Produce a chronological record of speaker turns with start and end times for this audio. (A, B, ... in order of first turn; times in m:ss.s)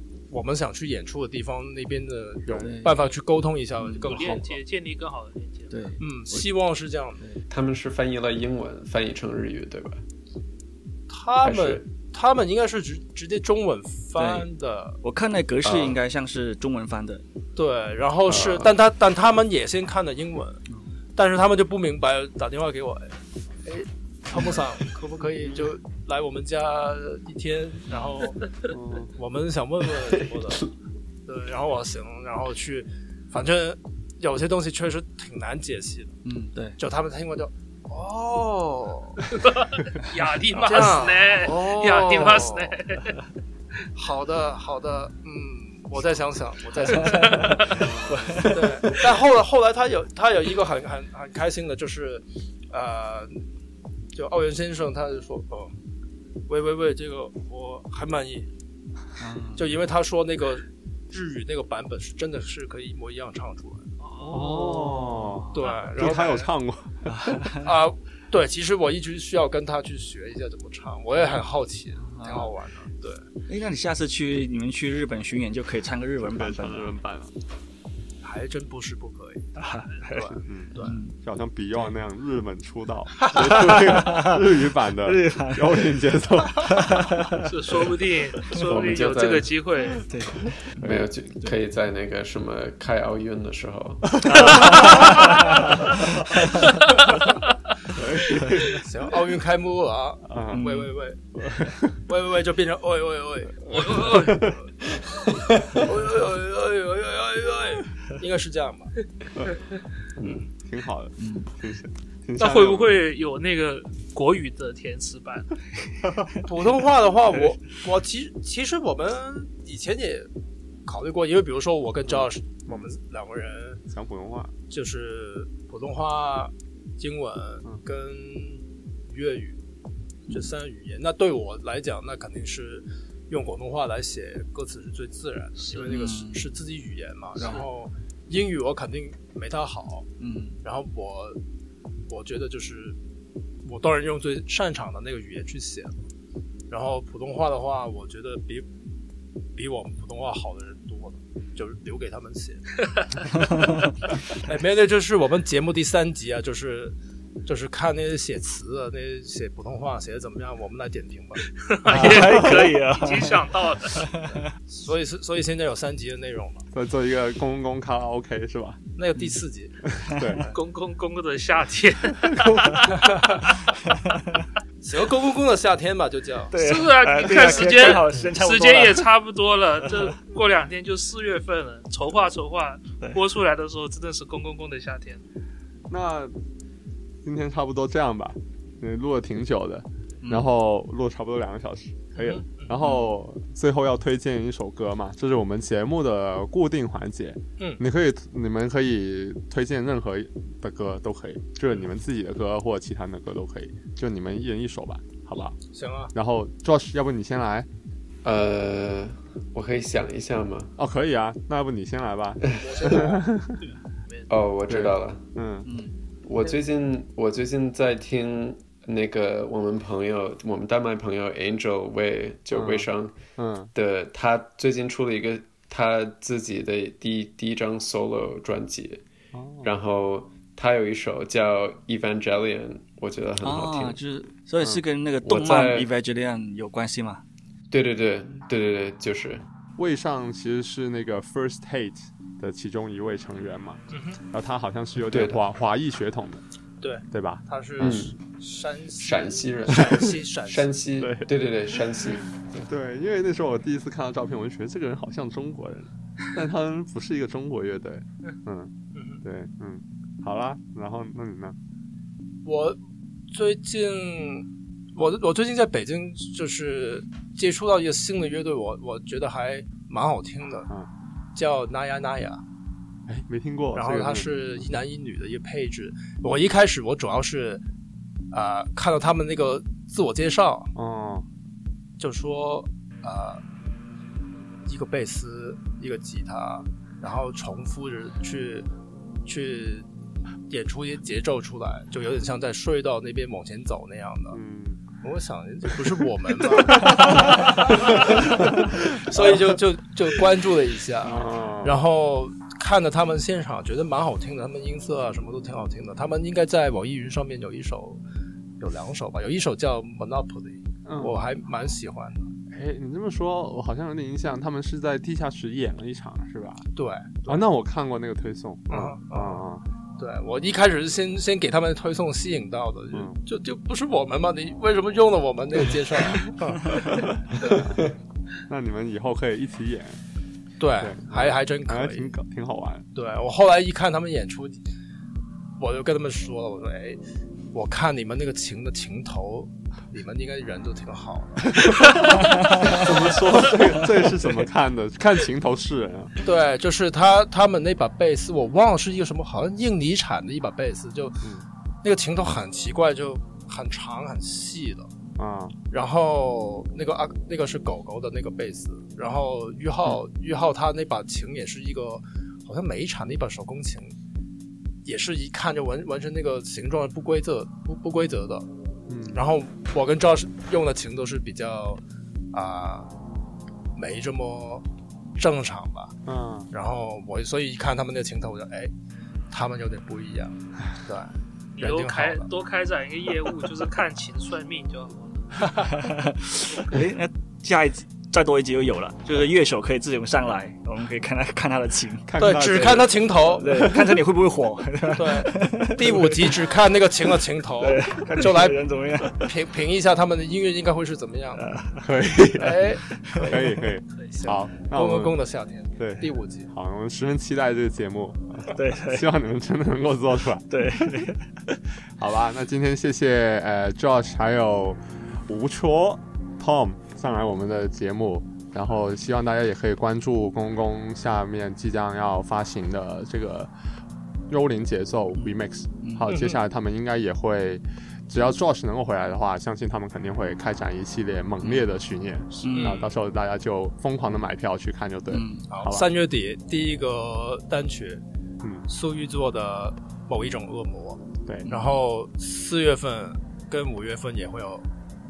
0:00.3-0:04.6 A
0:02.6-0:03.0 B
0:03.8-0:04.4 B
0:04.0-0:05.9 C
0:05.7-0:06.5 B
0:06.0-0:07.2 A
0:07.5-0:10.0 D
0:11.1-0:15.0 A
0:11.4-0:11.8 D
0:14.2-0:14.5 B
0:15.0-0:17.2 B
0:15.6-0:16.0 D
0:17.6-0:20.6 A
0:18.3-0:18.7 D
0:21.2-0:23.1 A
0:23.6-0:28.4 A
0:25.4-0:25.7 E
0:27.9-0:28.3 B
0:28.7-0:29.1 E
0:29.1-0:30.7 A
0:31.3-0:36.2 A
0:36.2-0:36.8 B
0:36.8-0:39.3 A
0:39.4-0:43.2 C
0:40.5-0:42.9 A
0:44.0-0:47.9 A
0:46.9-0:49.1 B
0:47.1-0:47.9 C
0:47.8-0:48.5 E
0:48.4-0:53.4 A
0:54.1-0:55.8 A
0:56.5-0:58.5 A
0:59.2-0:59.8 B
0:59.6-1:04.0 A
1:04.0-1:04.6 C
1:04.2-1:05.7 B
1:04.3-1:07.2 E
1:05.5-1:06.5 A
1:07.1-1:07.7 B
1:07.5-1:13.3 A
1:12.0-1:12.5 B
1:13.5-1:17.0 B
1:16.2-1:17.3 E
1:18.2-1:21.0 A
1:19.6-1:21.2 B
1:20.5-1:27.1 E
1:23.3-1:24.4 B
1:25.0-1:26.0 B
1:26.6-1:27.5 B
1:27.4-1:30.1 C
1:28.6-1:29.6 D
1:30.0-1:31.5 B
1:30.8-1:34.9 D
1:34.2-1:36.8 B
1:34.2-1:35.2 E
1:37.9-1:38.8 E
1:38.4-1:38.7 B
1:38.6-1:44.6 A
1:40.3-1:40.7 E
1:40.5-1:40.9 B
1:41.4-1:42.0 E
1:43.7-1:44.4 C
1:43.7-1:44.6 E
1:45.2-1:49.0 A
1:50.2-1:50.4 D
1:50.4-1:53.0 E
1:51.2-1:51.5 B
1:52.4-1:55.6 C
1:56.4-2:00.3 A
2:00.9-2:03.8 A
2:02.1-2:02.9 E
2:03.9-2:04.5 E
2:04.7-2:09.6 A
2:10.3-2:20.1 A
2:15.7-2:16.5 B
2:17.4-2:17.6 B
2:20.2-2:20.6 B
2:20.6-2:21.4 A
2:22.1-2:23.0 A
2:23.6-2:26.1 A
2:26.7-2:28.7 A
2:29.6-2:32.8 A
2:34.3-2:41.4 A
2:41.7-2:44.1 C
2:41.9-2:44.5 B
2:42.0-2:42.5 E
2:44.7-2:46.7 A
2:46.7-2:48.8 E
2:49.0-2:49.8 A
2:49.9-2:50.4 E
2:50.5-2:52.9 C
2:52.3-2:52.6 E
2:52.9-2:53.4 A
2:53.9-2:54.2 B
2:54.8-2:56.6 A
2:56.5-2:59.1 B
2:56.6-3:05.2 C
2:57.3-2:58.0 A
2:59.8-3:00.1 B
3:05.9-3:06.4 E
3:07.2-3:25.6 E
3:10.2-3:10.5 B
3:12.2-3:12.7 A
3:12.8-3:13.1 B
3:25.7-3:26.1 A
3:26.1-3:27.7 E
3:28.2-3:30.7 D
3:30.8-3:33.6 E
3:32.5-3:33.1 D
3:32.6-3:33.2 A
3:34.3-3:35.3 D
3:34.7-3:35.7 E
3:35.6-3:35.9 B
3:36.2-3:43.2 D
3:42.5-3:43.7 E
3:43.7-3:49.0 D
3:49.3-3:49.8 E
3:49.6-3:54.0 D
3:53.4-3:57.2 B
3:54.6-3:55.9 D
3:57.7-3:59.4 D
3:59.8-4:06.4 E
4:03.9-4:04.2 A
4:05.1-4:05.4 D
4:06.8-4:10.7 A
4:07.1-4:08.1 E
4:07.8-4:08.2 D
4:09.0-4:12.7 D
4:11.0-4:11.3 E
4:12.7-4:21.6 E
4:19.0-4:19.2 A
4:22.4-4:22.8 A
4:23.3-4:30.7 A
4:31.4-4:32.4 A
4:33.1-4:34.3 E
4:33.8-4:37.6 A
4:38.3-4:40.7 A
4:40.8-4:41.3 E
4:42.0-4:43.4 A
4:44.6-4:48.7 A
4:49.2-4:49.9 A
4:50.5-4:54.4 A
4:54.3-4:54.8 E
4:55.0-5:08.0 A
4:56.7-4:58.4 E
4:57.0-4:57.6 B
4:59.1-4:59.6 E
5:01.0-5:01.8 E
5:08.6-5:12.3 A
5:10.9-5:11.2 E
5:12.5-5:16.7 E
5:16.8-5:17.4 A
5:17.3-5:19.6 E
5:18.7-5:19.4 A
5:20.0-5:27.0 A
5:22.9-5:23.2 E
5:26.8-5:27.8 E
5:28.5-5:30.0 E
5:30.6-5:32.1 A
5:30.8-5:32.9 E
5:32.9-5:34.6 A
5:35.6-5:37.0 A
5:37.5-5:43.5 A
5:42.6-5:46.2 E
5:46.2-5:51.3 A
5:51.2-5:51.5 E
5:51.8-5:54.9 A
5:55.2-5:55.6 E
5:55.7-6:04.0 A
6:04.8-6:08.5 A
6:08.9-6:09.2 E
6:09.1-6:12.9 A
6:13.8-6:16.0 A
6:16.1-6:16.5 E
6:16.5-6:18.7 A
6:19.3-6:22.3 A
6:21.6-6:25.5 C
6:25.7-6:32.2 B
6:32.1-6:34.0 E
6:32.2-6:33.5 A
6:33.4-6:36.5 B
6:34.9-6:38.6 A
6:37.2-6:39.3 B
6:39.1-6:41.5 A
6:41.4-6:41.9 B
6:41.8-6:45.2 E
6:42.3-6:46.5 A
6:45.8-6:51.1 E
6:48.5-6:49.1 B
6:50.5-6:51.6 B
6:52.0-7:03.5 E
7:04.3-7:15.9 E
7:05.8-7:06.2 B
7:06.0-7:06.4 A
7:11.4-7:11.7 B
7:12.4-7:12.8 B
7:12.5-7:12.9 A
7:15.1-7:15.4 B
7:15.5-7:18.0 A
7:18.7-7:24.7 A